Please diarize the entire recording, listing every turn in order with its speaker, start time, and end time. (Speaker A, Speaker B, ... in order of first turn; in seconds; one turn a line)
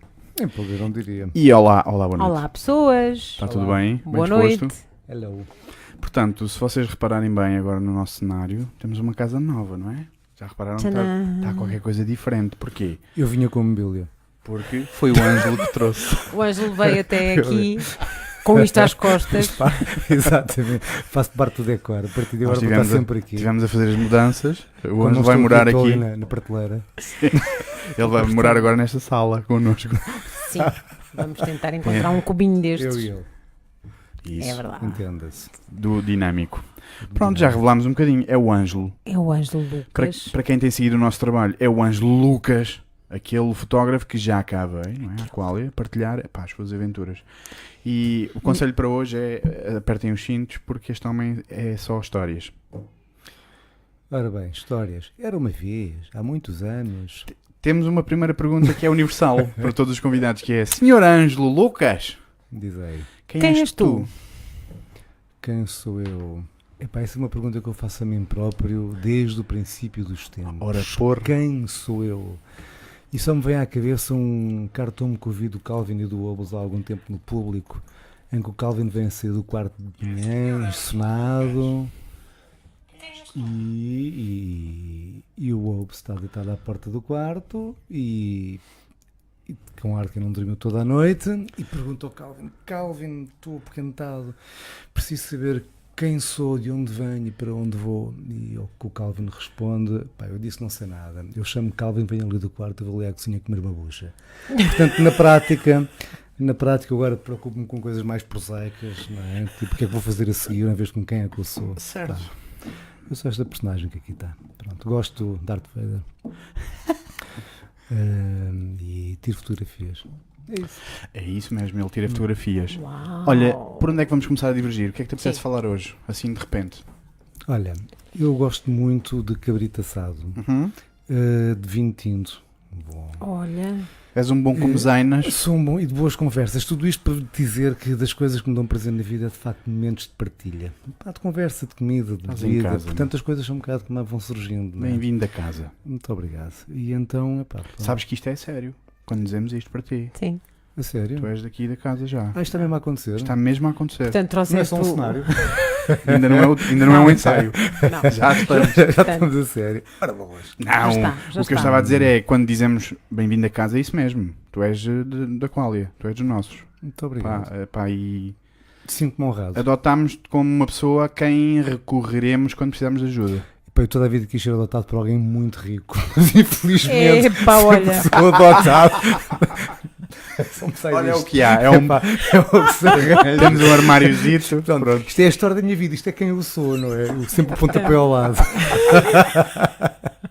Speaker A: 0.3-1.4
Speaker B: 1.3-2.4
Speaker C: 2.2-3.4
Speaker B: 3.4-4.7
Speaker A: 3.4-3.8
Speaker C: 4.0-4.8
Speaker A: 5.1-5.5
Speaker B: 6.0-13.0
Speaker C: 10.8-11.8
Speaker A: 13.2-14.1
Speaker B: 14.4-16.3
Speaker C: 16.2-20.0
Speaker A: 17.1-23.5
Speaker B: 22.4-26.0
Speaker A: 25.0-27.6
Speaker B: 27.1-30.6
Speaker C: 30.3-33.1
Speaker B: 31.8-32.2
Speaker A: 32.8-33.3
Speaker B: 34.2-34.6
Speaker C: 34.4-35.0
Speaker A: 34.8-35.5
Speaker B: 35.7-39.0
Speaker A: 37.0-37.6
Speaker C: 39.0-40.3
Speaker B: 39.9-47.2
Speaker B: 47.8-52.5
Speaker A: 54.1-57.3
Speaker B: 57.4-62.2
Speaker A: 62.5-63.1
Speaker B: 63.3-64.1
Speaker C: 63.4-64.1
Speaker A: 65.4-72.4
Speaker B: 70.6-71.3
Speaker A: 73.1-81.9
Speaker A: 83.0-88.6
Speaker A: 89.5-94.4
Speaker A: 94.9-112.3
Speaker B: 111.8-112.3
Speaker A: 113.1-116.1
Speaker A: 117.9-120.8
Speaker B: 121.1-126.8
Speaker C: 122.7-123.8
Speaker A: 127.5-130.4
Speaker B: 130.3-130.7
Speaker A: 131.1-133.2
Speaker C: 133.2-133.9
Speaker B: 134.1-135.4
Speaker A: 134.6-145.0
Speaker B: 142.3-143.1
Speaker B: 144.8-145.7
Speaker A: 145.8-148.0
Speaker B: 147.8-150.1
Speaker C: 150.2-150.4
Speaker A: 150.8-151.3
Speaker B: 151.2-152.4
Speaker A: 152.3-153.4
Speaker B: 153.2-154.2
Speaker C: 154.1-155.4
Speaker A: 154.5-160.6
Speaker B: 155.8-158.8
Speaker C: 156.9-157.2
Speaker C: 157.7-159.3
Speaker B: 160.6-166.7
Speaker C: 160.8-161.8
Speaker A: 161.6-162.1
Speaker A: 166.8-167.5
Speaker B: 167.2-168.3
Speaker A: 168.8-169.7
Speaker B: 169.5-173.5
Speaker A: 173.7-190.1
Speaker C: 176.8-178.1
Speaker B: 180.9-185.1
Speaker C: 187.6-189.2